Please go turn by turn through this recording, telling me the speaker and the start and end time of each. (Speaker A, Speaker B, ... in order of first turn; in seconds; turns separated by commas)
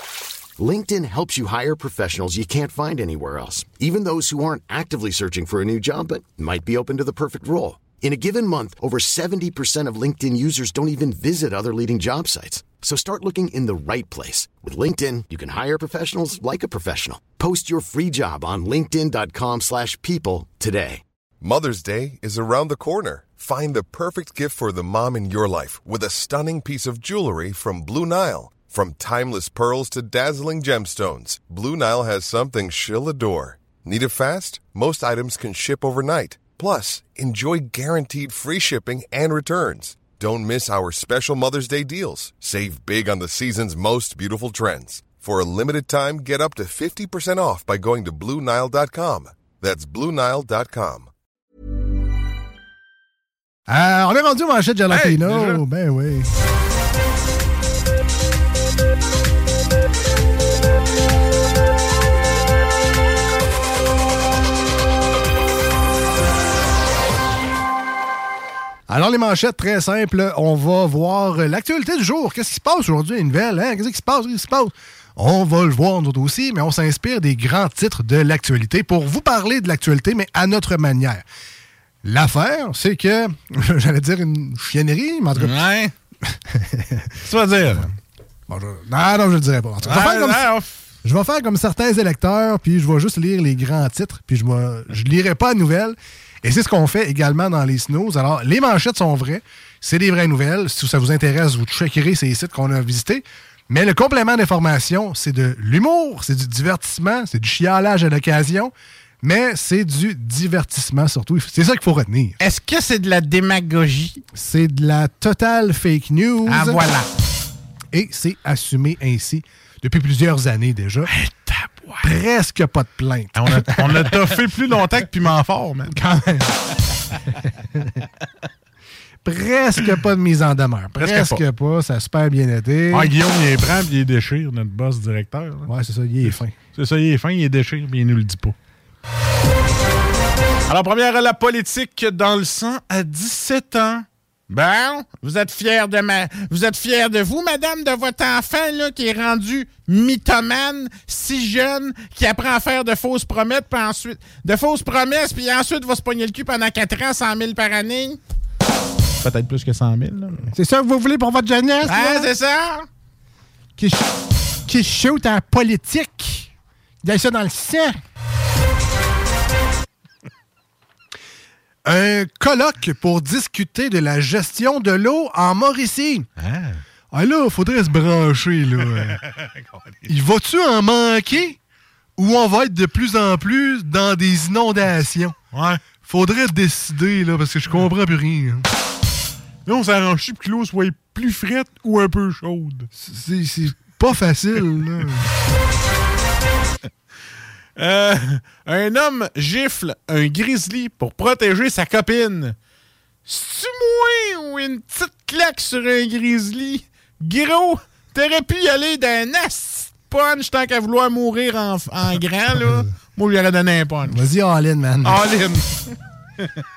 Speaker A: 0.6-21.0, Speaker B: 21.4-51.1, Speaker C: 53.7-56.3, Speaker D: 54.9-55.6, Speaker C: 68.9-81.2, Speaker C: 82.0-85.6, Speaker D: 85.3-85.9, Speaker C: 86.2-87.1, Speaker D: 87.2-87.9, Speaker C: 88.5-90.5, Speaker D: 89.8-90.8, Speaker C: 91.0-112.4, Speaker D: 112.4-114.2, Speaker C: 114.3-116.8, Speaker D: 116.5-117.1, Speaker C: 117.9-121.1, Speaker D: 121.1-122.1, Speaker C: 122.0-124.4, Speaker D: 123.3-126.0, Speaker C: 125.9-127.9, Speaker C: 129.2-133.1, Speaker D: 131.0-131.4, Speaker D: 132.9-135.7, Speaker C: 135.7-136.5, Speaker D: 136.2-138.6, Speaker D: 140.7-158.2, Speaker D: 159.2-160.5, Speaker C: 160.5-162.3, Speaker D: 161.8-162.9, Speaker C: 163.8-166.5, Speaker C: 167.0-168.0, Speaker C: 171.8-176.3, Speaker D: 176.4-176.8, Speaker C: 177.1-179.2, Speaker D: 178.9-179.8, Speaker C: 180.1-181.6, Speaker C: 182.2-185.3, Speaker D: 185.5-185.8, Speaker C: 186.0-188.7, Speaker D: 189.7-192.9, Speaker C: 193.0-195.3, Speaker D: 197.8-202.6, Speaker D: 203.2-214.2, Speaker C: 214.1-215.2, Speaker D: 215.0-215.9